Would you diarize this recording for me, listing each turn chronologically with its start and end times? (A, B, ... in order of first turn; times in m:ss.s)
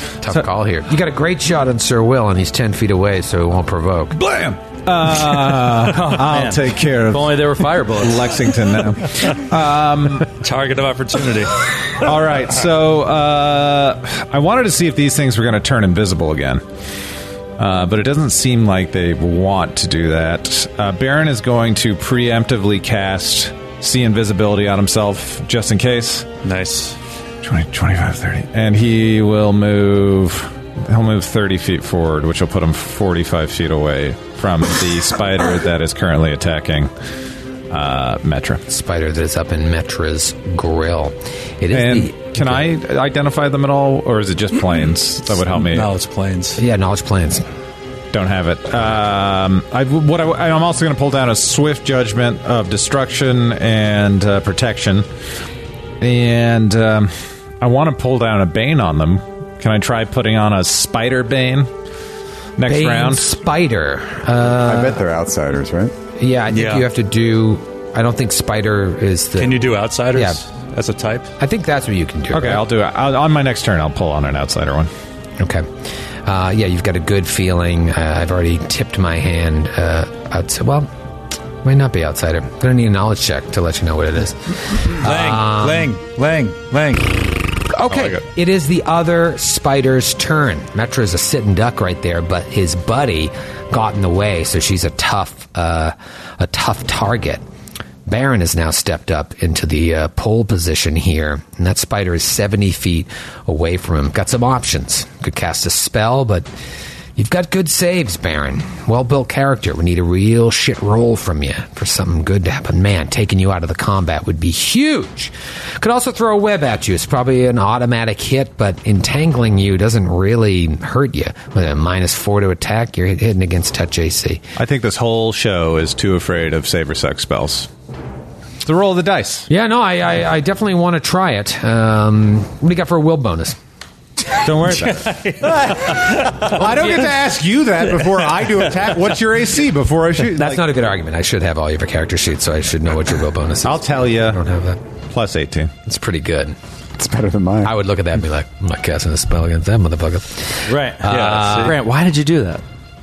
0:00.2-0:04.2 A
0:04.1-0:10.3 B
0:05.8-0:08.4 C
0:10.3-0:12.0 D
0:12.0-0:16.6 B
0:17.6-0:26.3 B
0:26.4-0:27.0 D
0:27.4-0:36.9 B
0:37.7-0:38.6 B
0:38.7-0:42.6 A
0:41.7-0:45.9 B
0:45.6-0:46.6 D
0:46.6-0:47.4 A
0:48.1-0:55.1 B
0:56.0-1:01.7 B
1:02.6-1:03.3 B
1:02.6-1:05.0 A
1:04.5-1:05.9 E
1:06.2-1:10.4 A
1:06.5-1:06.9 D
1:09.4-1:11.3 D
1:11.4-1:12.6 A
1:12.3-1:14.9 B
1:15.4-1:15.7 A
1:16.2-1:20.9 A
1:21.6-1:25.9 A
1:24.9-1:27.3 D
1:27.7-1:37.4 A
1:38.0-1:46.5 A
1:47.2-2:04.4 A
2:04.6-2:07.7 B
2:08.6-2:09.5 B
2:09.5-2:13.6 A
2:14.4-2:20.6 B
2:14.8-2:16.6 D
2:20.3-2:24.8 A
2:23.6-2:24.4 B
2:25.1-2:25.7 B
2:25.8-2:26.6 A
2:27.0-2:27.7 E
2:27.6-2:31.7 A
2:30.7-2:32.6 C
2:31.0-2:31.7 D